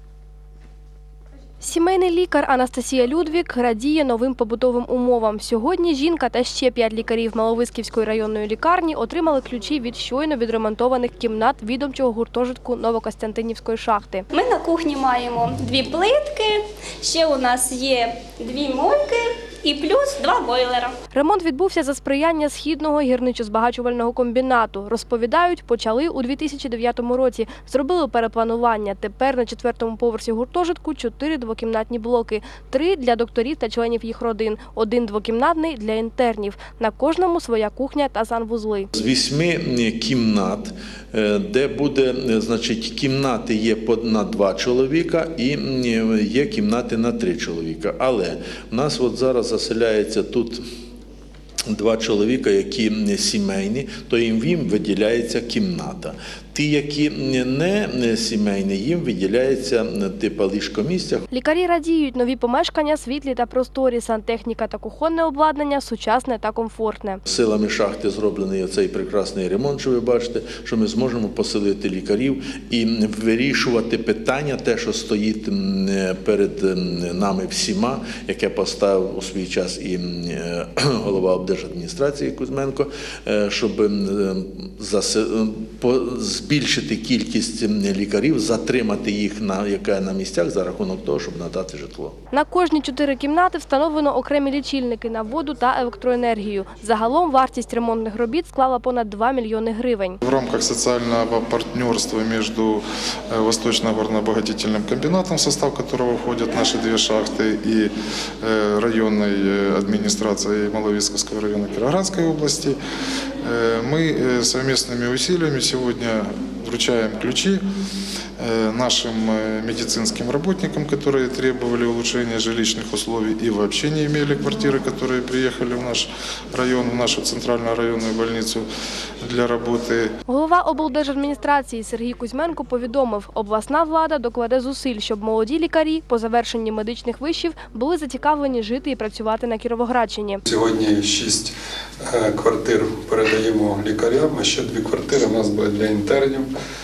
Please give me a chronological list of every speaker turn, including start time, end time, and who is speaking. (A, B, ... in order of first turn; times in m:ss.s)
0:01.6-0:14.3 A
0:14.3-0:20.9 B
0:21.1-0:38.9 A
0:38.9-0:50.6 C
0:51.7-1:01.2 C
1:01.3-1:07.2 A
1:07.2-1:32.1 C
1:32.3-1:40.2 A
1:40.2-1:52.8 D
1:53.4-1:57.6 D
1:58.4-2:08.6 D
2:09.2-2:10.1 D
2:10.3-2:20.4 A
2:20.4-2:26.5 E